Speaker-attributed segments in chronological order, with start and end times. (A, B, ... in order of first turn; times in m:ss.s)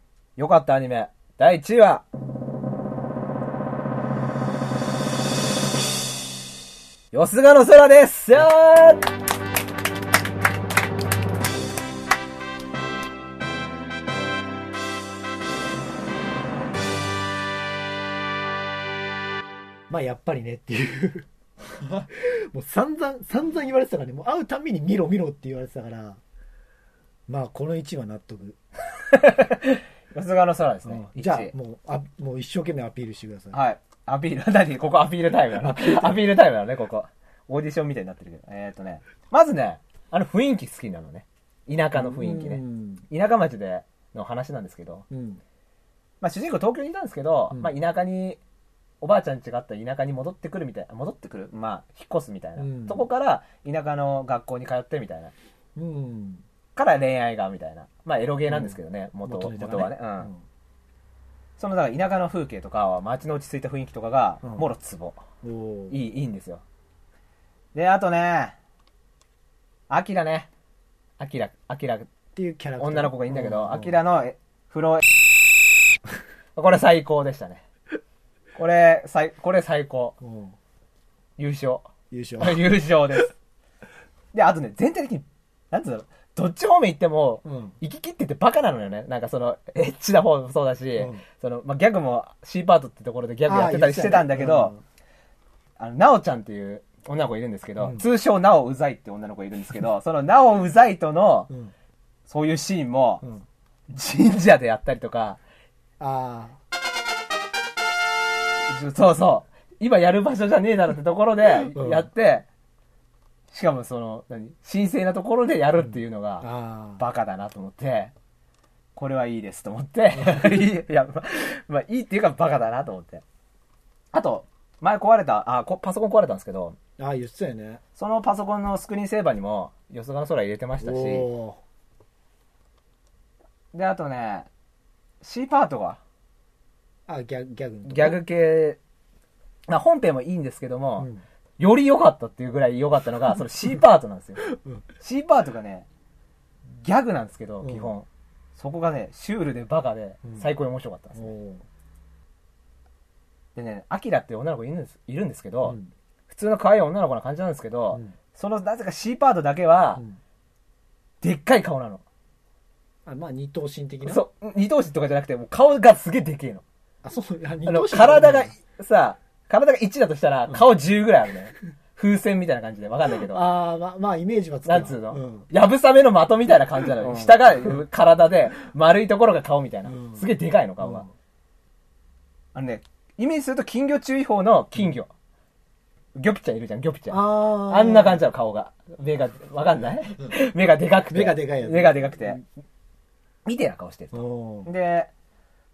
0:00.4-0:02.0 A
0:07.1-0:09.1 A
0:19.9-0:21.3 B
0:22.1-0:26.2 B
0:27.3-0:28.6 B
0:29.1-0:31.5 A
0:30.8-0:33.6 B
0:33.5-0:45.0 A
0:35.6-0:36.2 B
0:41.9-0:43.0 B
0:45.1-0:45.4 B
0:46.2-0:48.4 A
0:49.0-0:55.3 A
0:52.6-0:53.1 B
0:55.8-0:56.4 B
0:56.8-1:00.3 A
0:58.5-1:00.4 B
1:01.6-1:05.2 A
1:05.4-1:06.0 B
1:05.9-1:06.6 A
1:07.7-1:08.5 A
1:09.9-1:10.5 A
1:11.2-1:12.1 A
1:12.3-1:13.9 B
1:12.8-1:15.0 A
1:16.6-1:17.6 A
1:18.6-1:20.2 A
1:20.2-1:20.6 B
1:21.4-1:23.3 A
1:22.1-1:22.6 B
1:24.3-1:34.7 A
1:27.4-1:27.7 B
1:31.0-1:31.2 B
1:33.4-1:34.8 B
1:35.8-1:41.5 A
1:37.8-1:38.0 B
1:42.3-1:43.3 A
1:43.9-1:45.4 A
1:46.0-1:46.6 B
1:48.7-1:52.4 A
1:51.7-1:52.1 B
1:53.5-1:58.1 A
1:55.8-1:57.0 B
1:58.9-2:03.2 A
2:00.2-2:00.4 B
2:04.1-2:06.8 A
2:07.0-2:07.8 B
2:08.0-2:11.3 A
2:10.8-2:11.6 B
2:13.7-2:14.5 A
2:15.2-2:16.0 A
2:17.1-2:18.2 B
2:17.8-2:18.8 A
2:19.7-2:24.4 A
2:21.0-2:21.2 B
2:24.5-2:24.8 B
2:25.0-2:25.9 A
2:26.8-2:31.3 A
2:27.6-2:27.9 B
2:31.1-2:31.6 B
2:33.5-2:35.8 A
2:35.6-2:35.9 B
2:36.3-2:40.0 A
2:41.2-2:42.0 A
2:43.0-2:44.2 B
2:44.0-2:46.6 A
2:47.0-2:48.5 B
2:47.6-2:53.5 A
2:53.2-2:55.5 B
2:54.6-3:01.1 A
2:57.0-2:57.3 B
2:59.9-3:00.2 B
3:00.8-3:01.1 B
3:02.5-3:05.1 A
3:06.1-3:12.4 A
3:07.1-3:08.2 B
3:11.1-3:12.4 B
3:13.4-3:15.1 A
3:14.1-3:14.7 B